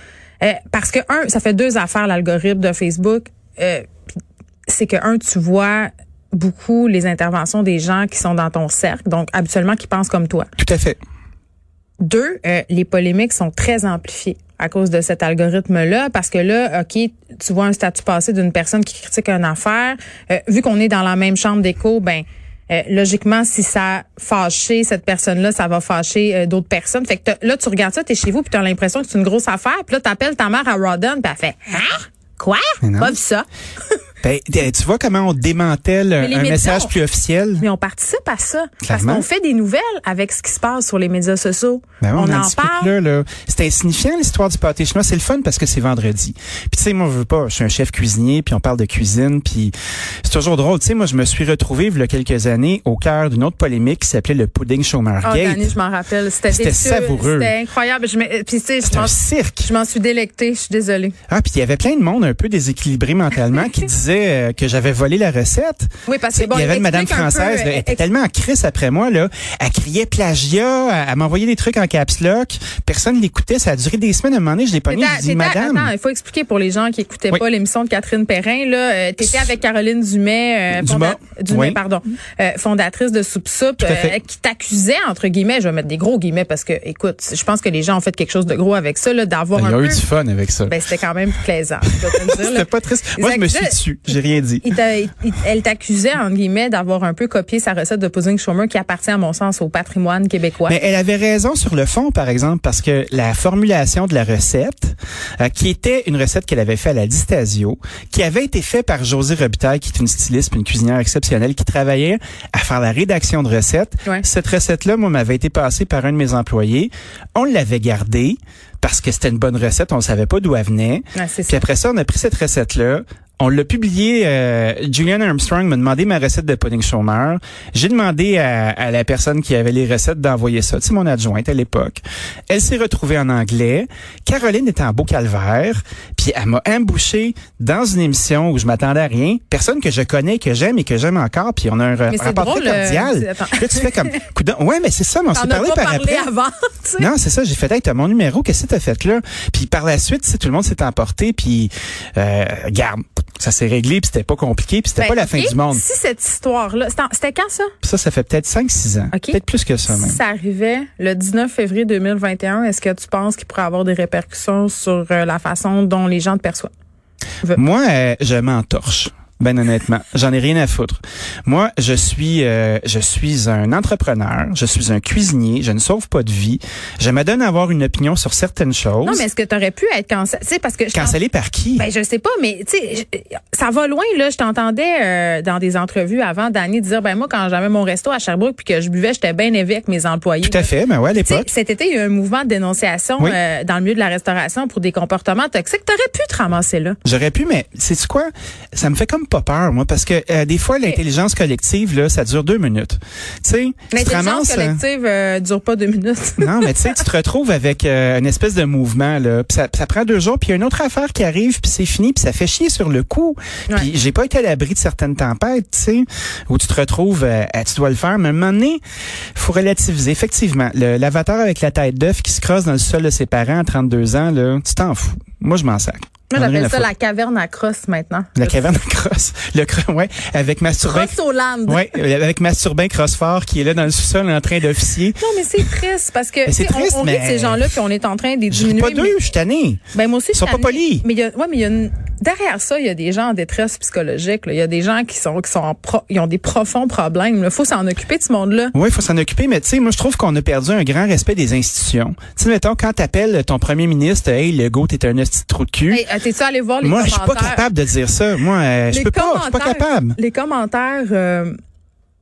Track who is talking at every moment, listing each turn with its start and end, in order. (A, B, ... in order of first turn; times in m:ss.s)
0:00.4-0:03.9 A
0:04.7-0:10.5 A
0:10.6-0:11.0 B
0:12.0-0:33.5 A
0:32.8-0:33.2 B
0:34.2-0:37.6 B
0:36.2-0:37.0 A
0:37.6-0:42.9 A
0:38.8-0:39.3 B
0:42.0-0:55.7 B
0:55.2-1:01.2 A
0:56.5-0:57.5 B
0:58.9-0:59.7 B
1:01.3-1:15.9 B
1:06.1-1:08.0 A
1:14.9-1:30.0 A
1:20.7-1:21.8 B
1:23.8-1:24.2 B
1:29.6-1:30.7 B
1:30.7-1:40.8 A
1:32.0-1:34.7 B
1:40.7-2:26.3 B
2:01.2-2:01.6 A
2:22.1-2:24.2 A
2:25.3-2:27.1 A
2:27.0-2:35.8 B
2:35.0-2:37.7 A
2:37.8-2:40.2 B
2:39.1-2:46.7 A
2:47.5-2:59.2 B
2:59.0-3:01.2 A
3:00.9-3:01.8 B
3:01.7-3:10.7 A
3:10.4-3:11.5 B
3:11.2-3:17.0 A
3:17.0-3:24.8 B
3:23.9-3:27.0 A
3:26.4-3:38.8 B
3:39.4-3:46.9 B
3:46.3-3:48.7 A
3:48.4-3:51.2 B
3:50.9-3:51.8 A
3:51.7-3:55.2 B
3:55.2-3:59.2 A
3:56.5-3:57.7 B
3:58.5-3:59.8 B
3:59.9-4:08.7 A
4:00.3-4:01.0 B
4:08.7-4:16.0 B
4:15.9-4:17.7 A
4:16.8-4:20.2 B
4:18.9-4:21.6 A